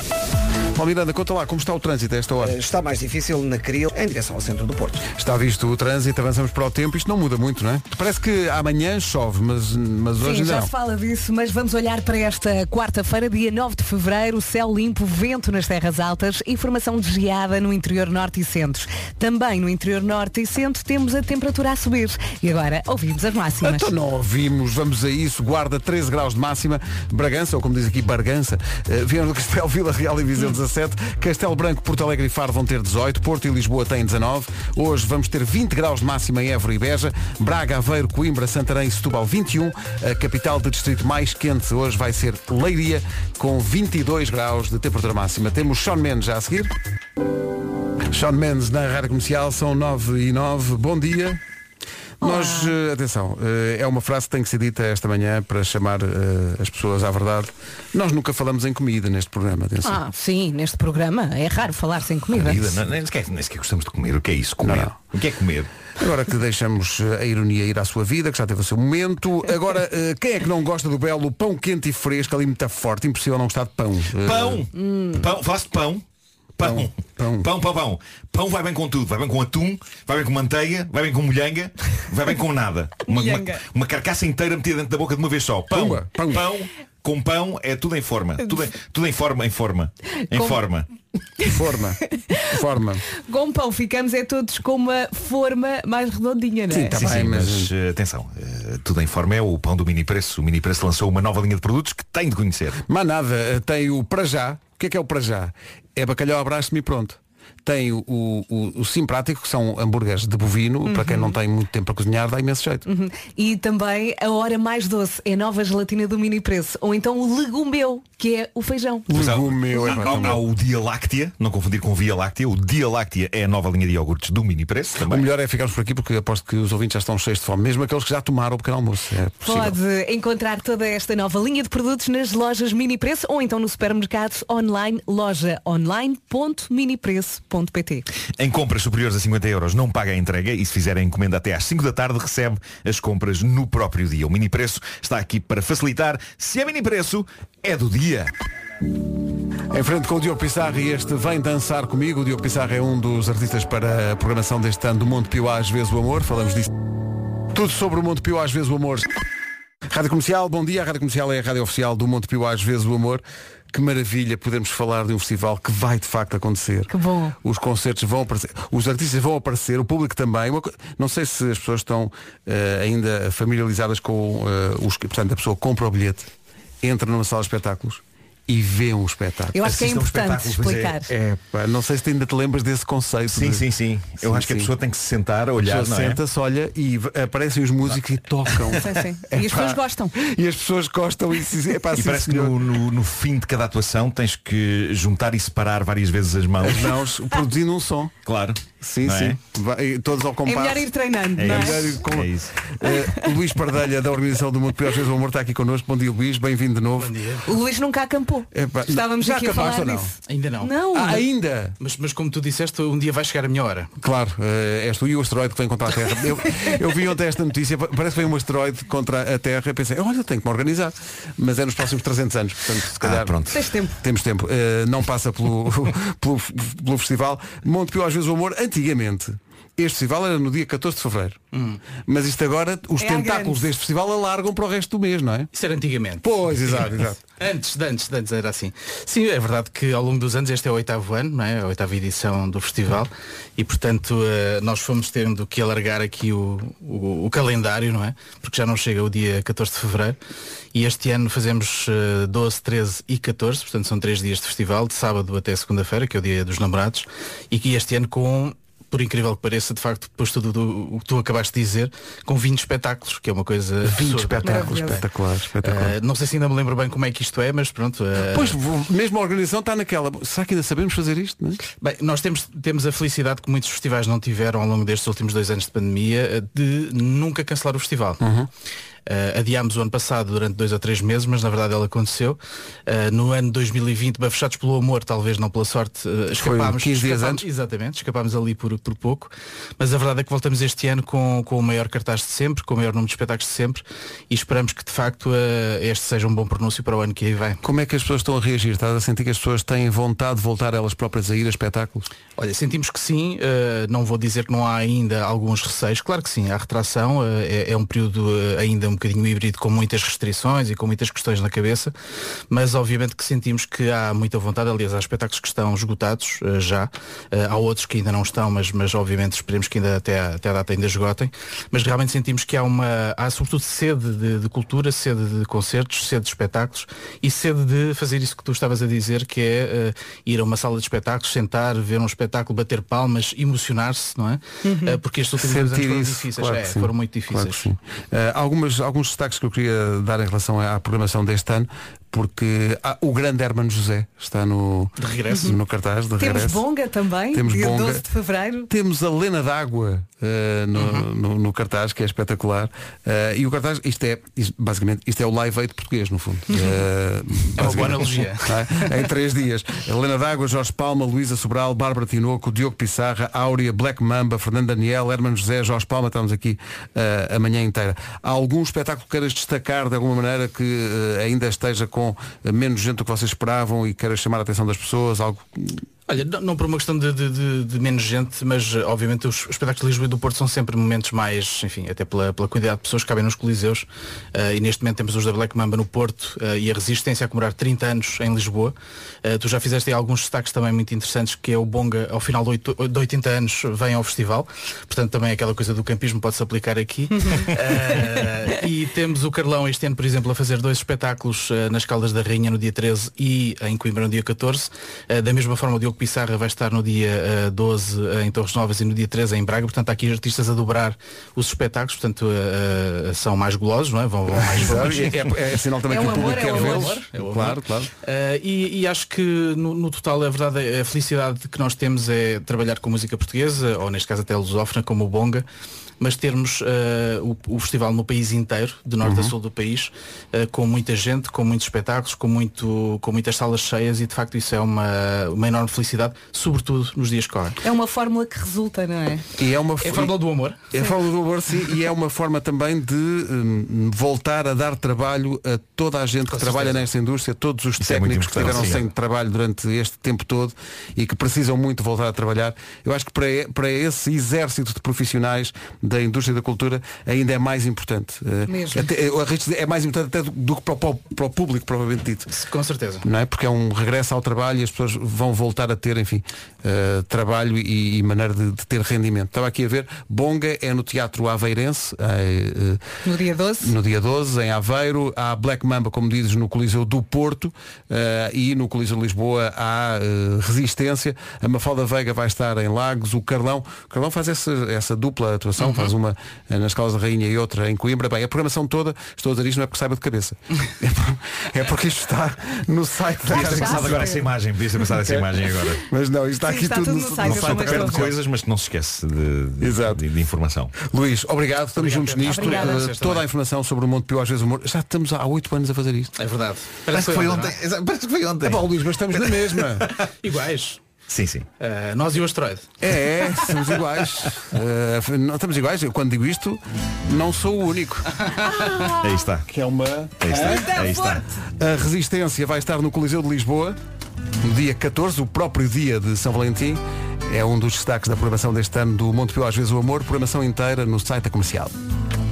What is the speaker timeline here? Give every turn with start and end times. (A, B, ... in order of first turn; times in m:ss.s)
0:00.7-0:02.6 A
0:02.4-0:05.0 B
0:05.2-0:10.7 A
0:10.2-0:23.9 C
0:23.6-0:46.7 A
0:48.1-0:51.4 A
0:52.2-0:52.7 C
0:52.2-1:00.0 A
0:59.8-1:02.6 C
1:02.3-1:05.7 D
1:04.6-1:05.0 A
1:06.0-1:14.6 A
1:14.2-1:16.0 D
1:14.8-1:15.1 C
1:16.6-1:30.9 D
1:16.6-1:17.5 A
1:23.1-1:23.6 C
1:25.7-1:26.5 A
1:30.3-1:30.6 C
1:31.4-1:33.0 A
1:33.2-1:37.0 C
1:36.7-1:37.7 A
1:37.0-1:42.8 D
1:42.9-1:52.8 A
1:50.9-1:51.4 C
1:52.9-1:59.1 C
1:59.1-2:00.4 A
1:59.1-2:05.3 D
1:59.8-2:00.4 C
2:05.0-2:09.8 A
2:09.4-2:18.0 C
2:18.4-2:28.3 D
2:29.7-2:36.7 A
2:37.5-2:39.1 A
2:39.9-2:46.9 A
2:46.9-2:47.4 C
2:47.4-2:56.3 A
2:56.8-2:59.6 A
2:59.5-3:01.1 C
2:59.6-3:01.0 D
3:01.1-3:03.6 A
3:03.3-3:06.2 D
3:04.2-3:04.7 A
3:05.6-3:12.6 A
3:08.8-3:10.1 C
3:12.0-3:16.9 D
3:16.6-3:18.1 A
3:18.3-3:19.4 D
3:18.8-3:27.1 A
3:20.5-3:21.8 C
3:21.4-3:22.5 D
3:27.0-3:27.4 E
3:27.4-3:31.2 C
3:28.5-3:30.1 A
3:30.3-3:30.7 E
3:30.9-3:31.8 A
3:31.8-3:33.9 E
3:34.0-3:43.4 A
3:43.0-3:43.6 D
3:43.5-3:44.0 C
3:44.0-3:51.4 A
3:51.5-3:51.8 E
3:52.0-3:55.5 A
3:53.0-3:53.6 C
3:55.5-4:10.2 E
3:56.2-3:57.2 A
4:10.7-4:25.0 E
4:23.8-4:25.9 A
4:24.4-4:25.0 C
4:25.6-4:28.6 E
4:28.3-4:31.6 A
4:31.8-4:38.2 E
4:38.2-4:38.5 A
4:39.1-4:57.6 E
4:46.4-4:47.4 A
4:57.6-5:02.1 A
5:02.4-5:11.9 E
5:12.5-5:37.7 E
5:34.6-5:35.0 C
5:35.4-5:46.6 A
5:45.0-5:45.5 E
5:46.2-5:48.7 C
5:47.3-5:48.0 A
5:48.7-6:15.9 A
5:50.7-5:51.0 E
5:57.6-5:59.1 E
6:16.1-7:05.4 E
6:37.2-6:37.4 C
6:54.5-6:57.9 A
6:55.9-6:57.0 C
7:06.0-7:17.6 E
7:09.0-7:09.3 A
7:17.6-7:19.2 C
7:19.4-7:20.1 A
7:19.8-7:20.6 E
7:20.7-7:42.3 A
7:26.3-7:26.9 E
7:27.8-7:28.8 D
7:38.5-7:38.9 C
7:42.3-7:43.0 E
7:43.0-7:52.8 A
7:53.0-7:53.7 C
7:53.6-8:14.2 A
8:05.6-8:05.9 E
8:13.3-8:15.8 D
8:13.3-8:14.3 C
8:15.0-8:18.2 A
8:16.5-8:18.0 C
8:17.2-8:20.7 D
8:19.6-8:20.0 A
8:20.8-8:26.2 A
8:21.7-8:23.2 E
8:22.3-8:22.8 C
8:26.2-8:27.6 E
8:26.9-8:30.0 D
8:28.4-8:29.9 A
8:30.2-8:30.8 E
8:31.1-8:31.5 D
8:31.6-8:32.7 E
8:32.8-8:38.1 A
8:38.4-8:39.0 C
8:39.0-8:39.5 D
8:39.5-8:40.7 A
8:40.2-8:41.2 D
8:40.3-8:41.4 C
8:41.6-8:43.8 A
8:44.4-8:51.7 A